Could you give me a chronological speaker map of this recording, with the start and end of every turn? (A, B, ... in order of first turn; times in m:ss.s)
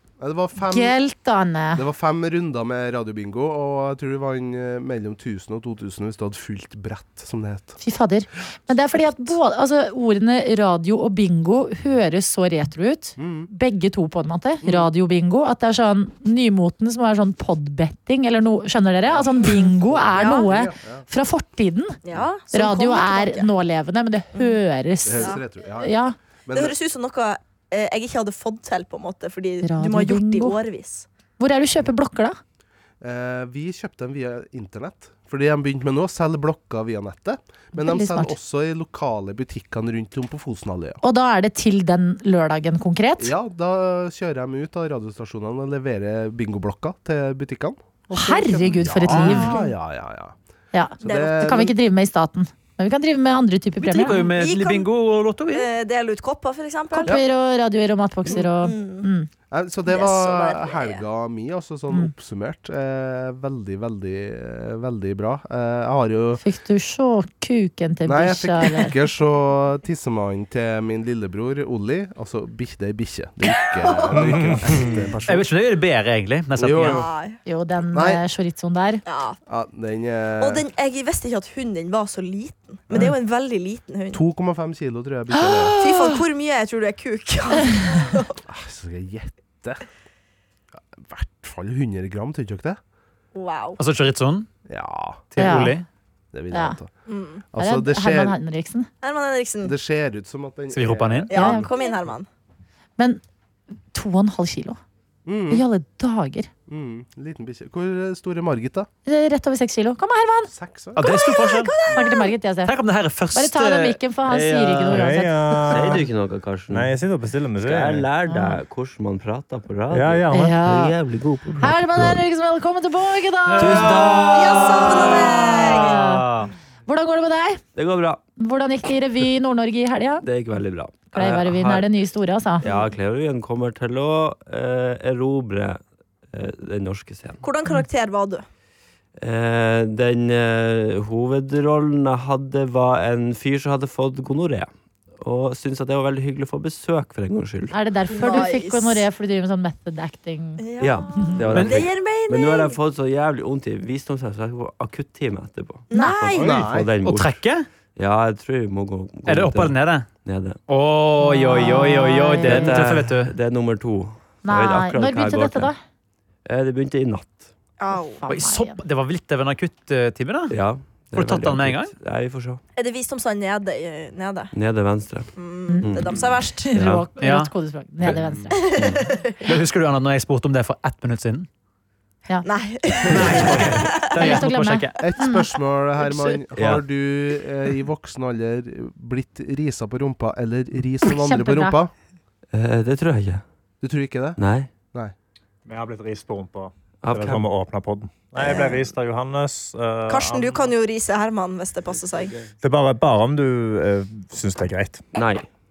0:00.2-0:01.0 A
0:00.6-0:01.8 B
0:01.7-0:07.8 A
0:07.8-0:22.0 B
0:13.2-0:13.5 A
0:14.6-0:14.9 C
0:19.1-0:21.0 A
0:22.0-0:23.5 C
0:22.5-0:26.2 B
0:25.0-0:26.8 A
0:25.1-0:25.4 C
0:26.5-0:31.1 C
0:29.6-0:30.6 B
0:31.4-0:32.4 B
0:33.0-0:41.0 A
0:37.7-0:38.3 B
0:41.0-0:43.3 B
0:43.2-0:50.3 A
0:48.1-0:49.7 B
0:50.7-0:54.2 B
0:51.0-0:51.7 A
0:51.0-0:51.4 C
0:53.8-0:55.6 D
0:54.2-0:54.9 C
0:55.5-0:57.2 C
0:56.9-0:59.3 B
0:58.5-0:59.1 C
0:59.5-1:06.4 A
0:59.9-1:01.0 C
1:06.4-1:08.9 B
1:08.0-1:15.5 A
1:13.5-1:14.9 C
1:14.1-1:15.0 E
1:15.3-1:17.0 D
1:16.6-1:17.1 A
1:16.8-1:17.4 C
1:17.4-1:19.0 B
1:17.9-1:18.2 A
1:19.0-1:19.4 C
1:19.4-1:20.6 A
1:20.4-1:24.2 C
1:22.9-1:23.2 A
1:24.1-1:25.7 A
1:25.4-1:26.2 B
1:25.8-1:28.4 C
1:28.5-1:29.8 A
1:31.0-1:32.8 A
1:33.3-1:33.8 C
1:33.8-1:34.5 D
1:34.7-1:35.7 A
1:35.3-1:35.8 D
1:35.4-1:35.8 B
1:36.3-1:36.9 A
1:36.5-1:36.8 B
1:37.1-1:37.4 C
1:37.5-1:38.4 A
1:37.6-1:38.9 B
1:39.0-1:39.7 C
1:39.6-1:41.7 A
1:40.7-1:41.3 D
1:41.3-1:42.3 C
1:41.3-1:41.9 B
1:43.9-1:44.8 B
1:45.2-1:45.6 A
1:45.5-1:46.5 B
1:46.7-1:48.9 A
1:49.0-1:50.5 B
1:50.5-1:51.1 A
1:51.0-1:51.8 D
1:51.0-1:52.4 C
1:51.9-1:52.7 B
1:52.6-1:54.0 D
1:53.3-1:55.9 B
1:54.3-1:55.1 F
1:54.9-1:56.1 E
1:55.7-1:57.0 F
1:56.7-1:58.1 E
1:57.5-2:02.2 F
1:58.3-1:58.6 B
1:59.9-2:00.6 E
2:00.3-2:01.0 B
2:01.6-2:04.2 B
2:03.5-2:06.5 D
2:03.6-2:04.2 F
2:04.3-2:06.0 C
2:05.7-2:06.2 B
2:06.9-2:07.6 B
2:07.7-2:08.2 F
2:08.4-2:10.2 B
2:10.2-2:11.9 F
2:11.1-2:12.6 B
2:12.6-2:17.4 F
2:17.4-2:18.4 C
2:19.2-2:27.8 F
2:27.7-2:30.6 B
2:28.1-2:29.0 C
2:30.6-2:32.8 C
2:30.8-2:37.4 F
2:31.5-2:31.8 D
2:35.9-2:36.6 C
2:36.0-2:36.3 B
2:36.3-2:36.9 A
2:36.4-2:37.7 D
2:38.0-2:40.6 F
2:39.2-2:40.1 D
2:40.7-2:43.3 D
2:41.2-2:42.7 B
2:41.5-2:45.7 F
2:44.4-2:45.7 B
2:46.4-2:47.5 F
2:47.8-2:48.2 C
2:47.9-2:48.8 B
2:48.3-2:50.6 D
2:50.5-2:52.6 F
2:51.1-2:51.9 D
2:52.8-2:54.5 C
2:54.5-2:55.3 F
2:55.3-2:56.7 C
2:55.7-2:56.0 B
2:55.8-2:57.1 F
2:56.5-2:58.7 B
2:57.2-2:57.5 D
2:58.0-2:58.4 D
2:58.5-2:59.4 C
2:58.7-2:59.0 F
2:59.4-3:01.5 D
3:02.4-3:04.3 C
3:03.1-3:05.0 D
3:04.2-3:05.5 B
3:05.0-3:11.9 A
3:06.0-3:06.4 C
3:06.5-3:06.8 F
3:11.0-3:11.8 B
3:12.5-3:13.4 F
3:13.8-3:14.4 A
3:14.4-3:14.7 F
3:15.6-3:20.7 E
3:17.0-3:17.4 F
3:18.4-3:18.8 C
3:20.1-3:22.4 C
3:22.6-3:25.0 E
3:25.1-3:25.5 F